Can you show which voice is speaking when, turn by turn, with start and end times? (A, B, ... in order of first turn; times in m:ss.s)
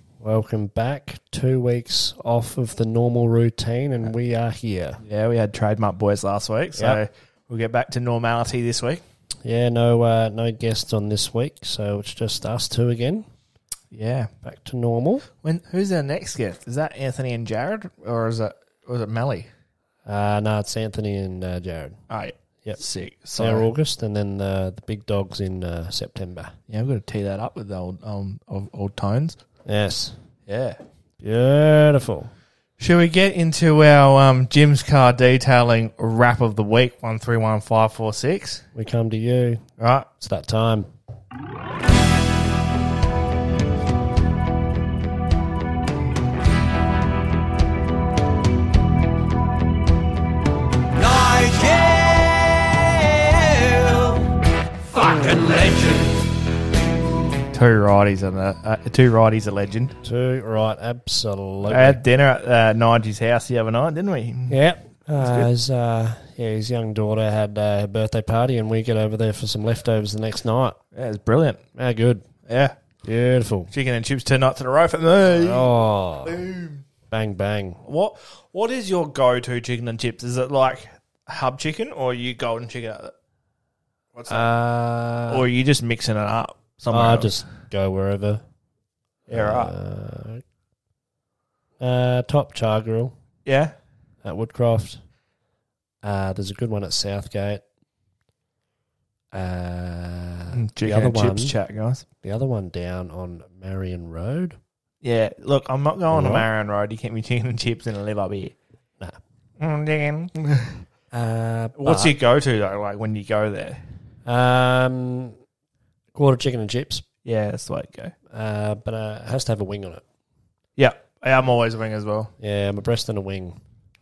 0:00.2-0:05.0 A
0:05.0-0:09.0 B
0:09.4-0:13.3 A
0:13.9-0:14.3 B
0:14.4-0:15.3 A
0:15.4-0:19.5 B
0:20.1-0:22.0 A
0:22.1-0:23.7 B
0:23.4-0:26.5 A
0:26.7-0:29.4 B
0:29.6-0:30.2 A
0:30.5-0:30.8 B
0:31.2-0:32.3 A
0:32.8-0:38.6 B
0:38.7-0:39.6 A
0:39.8-0:40.1 B
0:40.2-0:40.9 A
0:51.0-0:54.3 C
0:54.9-0:56.2 C
0:55.0-0:55.3 A
0:57.5-1:00.0 B
1:00.0-1:02.0 A
1:01.6-1:04.6 B
1:04.5-1:10.8 A
1:05.2-1:05.5 B
1:11.0-1:11.6 B
1:11.8-1:12.3 A
1:12.5-1:12.7 B
1:13.0-1:13.7 A
1:13.7-1:15.7 B
1:15.2-1:16.4 A
1:16.3-1:16.8 B
1:17.1-1:17.8 A
1:17.8-1:23.1 B
1:24.2-1:24.5 B
1:24.3-1:25.4 A
1:25.3-1:27.3 B
1:26.9-1:28.4 A
1:29.3-1:30.4 A
1:29.3-1:29.7 B
1:31.8-1:33.1 A
1:33.5-1:33.7 B
1:34.2-1:35.0 A
1:36.0-1:37.6 A
1:39.3-1:41.6 A
1:40.5-1:42.0 B
1:42.2-1:44.6 A
1:45.0-1:48.6 B
1:46.1-1:46.5 A
1:49.6-1:50.8 B
1:51.1-1:52.1 A
1:51.8-1:53.8 B
1:54.2-1:55.4 A
1:56.2-1:57.0 A
1:57.2-1:58.1 B
1:58.3-2:00.0 A
2:00.8-2:02.3 B
2:02.4-2:03.6 A